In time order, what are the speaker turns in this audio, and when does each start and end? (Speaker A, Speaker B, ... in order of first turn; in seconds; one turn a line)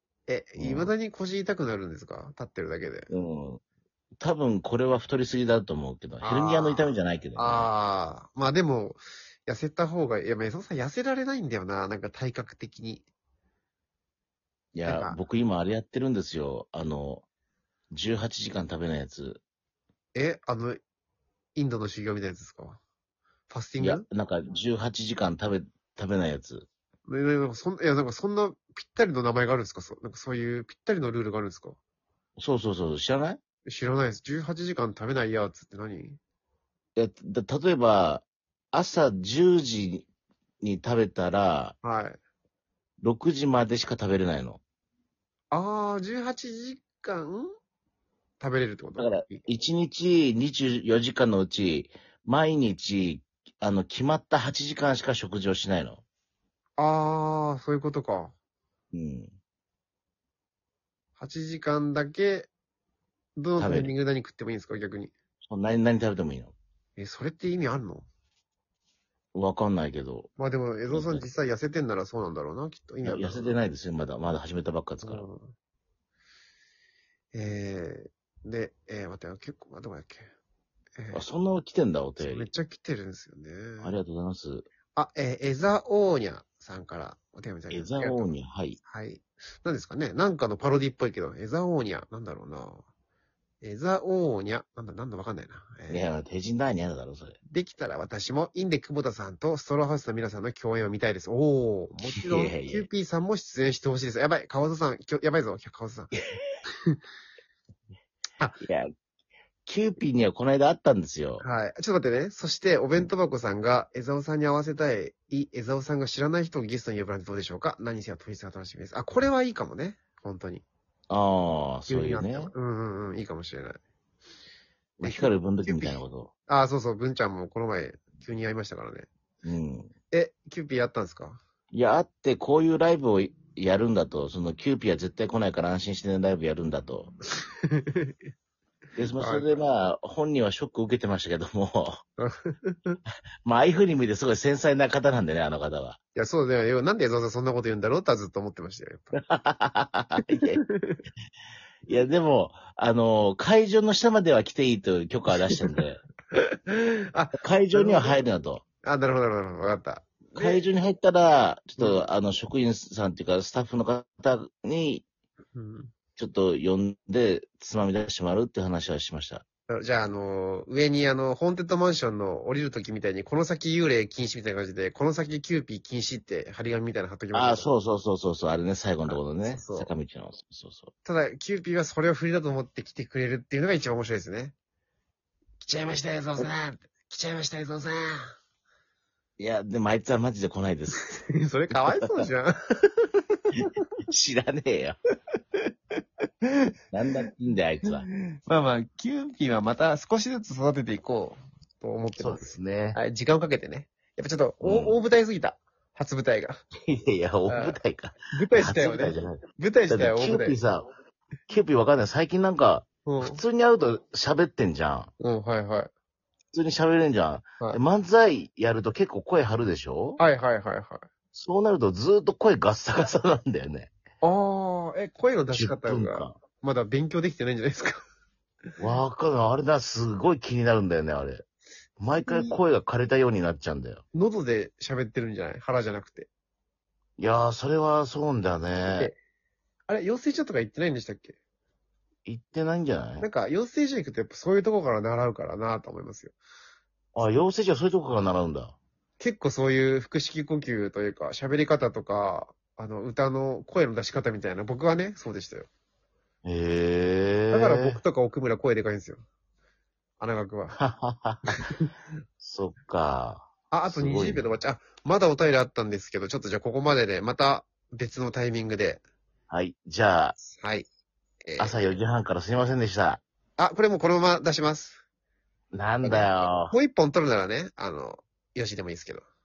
Speaker A: 0.3-3.1
Speaker B: 0.6-0.9
Speaker B: 3.1-3.6
Speaker B: 4.2-7.7
Speaker A: 6.2-13.1
Speaker B: 14.7-17.2
Speaker A: 14.9-15.2
Speaker B: 17.9-19.4
Speaker A: 20.1-20.8
Speaker A: 21.6-22.8
Speaker A: 23.5-24.0
Speaker B: 23.8-26.7
Speaker A: 27.1-31.8
Speaker B: 32.4-33.4
Speaker A: 33.7-36.2
Speaker B: 37.0-40.1
Speaker B: 40.6-41.8
Speaker A: 41.8-42.2
Speaker B: 43.0-44.6
Speaker A: 45.5-47.5
Speaker A: 48.4-49.4
Speaker B: 49.0-56.0
Speaker A: 56.8-58.3
Speaker B: 58.9-59.3
Speaker A: 61.2-62.5
Speaker A: 63.4-65.1
Speaker B: 63.6-63.9
Speaker B: 65.5-66.5
Speaker A: 67.0-68.1
Speaker B: 69.3-70.3
Speaker A: 70.4-73.6
Speaker B: 70.9-71.2
Speaker B: 73.0-75.2
Speaker A: 75.0-75.5
Speaker A: 77.3-80.3
Speaker A: 81.0-81.2
Speaker B: 81.1-82.5
Speaker A: 82.2-84.0
Speaker B: 83.8-84.7
Speaker A: 84.9-92.8
Speaker B: 87.7-88.8
Speaker A: 93.6-96.1
Speaker B: 95.9-97.4
Speaker A: 97.5-106.1
Speaker B: 102.0-102.9
Speaker B: 108.6-108.9
Speaker B: 109.7-111.5
Speaker A: 111.4-120.6
Speaker B: 121.1-122.5
Speaker A: 121.9-123.8
Speaker B: 125.0-126.3
Speaker A: 125.0-129.1
Speaker B: 129.4-129.9
Speaker A: 130.1-131.4
Speaker B: 131.7-137.1
Speaker A: 137.4-138.1
Speaker B: 139.0-142.0
Speaker A: 139.2-139.6
Speaker A: 142.2-143.0
Speaker B: 143.4-146.0
Speaker A: 146.2-149.2
Speaker B: 149.2-150.6
Speaker A: 150.3-151.0
Speaker B: 151.9-156.0
Speaker A: 156.3-158.2
Speaker B: 157.4-158.6
Speaker A: 158.8-160.7
Speaker B: 160.3-165.1
Speaker A: 165.6-165.9
Speaker B: 166.2-169.4
Speaker A: 169.7-177.7
Speaker B: 177.3-180.9
Speaker A: 179.1-179.9
Speaker A: 181.0-184.5
Speaker A: 185.6-188.3
Speaker B: 189.4-191.1
Speaker A: 191.0-193.8
Speaker B: 191.8-192.3
Speaker B: 193.6-195.0
Speaker B: 196.9-198.1
Speaker A: 198.5-206.6
Speaker B: 202.2-203.0
Speaker B: 204.6-205.0
Speaker B: 206.9-210.9
Speaker A: 207.5-207.8
Speaker A: 208.3-210.6
Speaker B: 211.5-215.1
Speaker A: 213.1-213.4
Speaker A: 215.2-215.9
Speaker B: 216.5-220.2
Speaker A: 220.2-221.1
Speaker B: 221.3-223.9
Speaker A: 224.2-228.0
Speaker B: 225.5-226.3
Speaker B: 228.8-231.4
Speaker B: 232.0-234.0
Speaker A: 232.2-232.6
Speaker A: 234.1-236.3
Speaker B: 237.2-239.1
Speaker A: 238.9-239.2
Speaker A: 239.9-241.4
Speaker B: 242.2-243.3
Speaker A: 243.2-246.3
Speaker B: 247.2-248.8
Speaker A: 249.2-255.7
Speaker B: 256.4-258.0
Speaker A: 257.5-259.2
Speaker A: 260.2-260.8
Speaker B: 260.8-261.6
Speaker A: 261.5-261.9
Speaker B: 262.4-264.5
Speaker A: 263.7-269.0
Speaker B: 269.5-270.4
Speaker A: 270.4-270.9
Speaker A: 271.4-271.8
Speaker B: 271.6-273.2
Speaker A: 273.6-275.0
Speaker B: 275.7-276.8
Speaker A: 276.0-279.2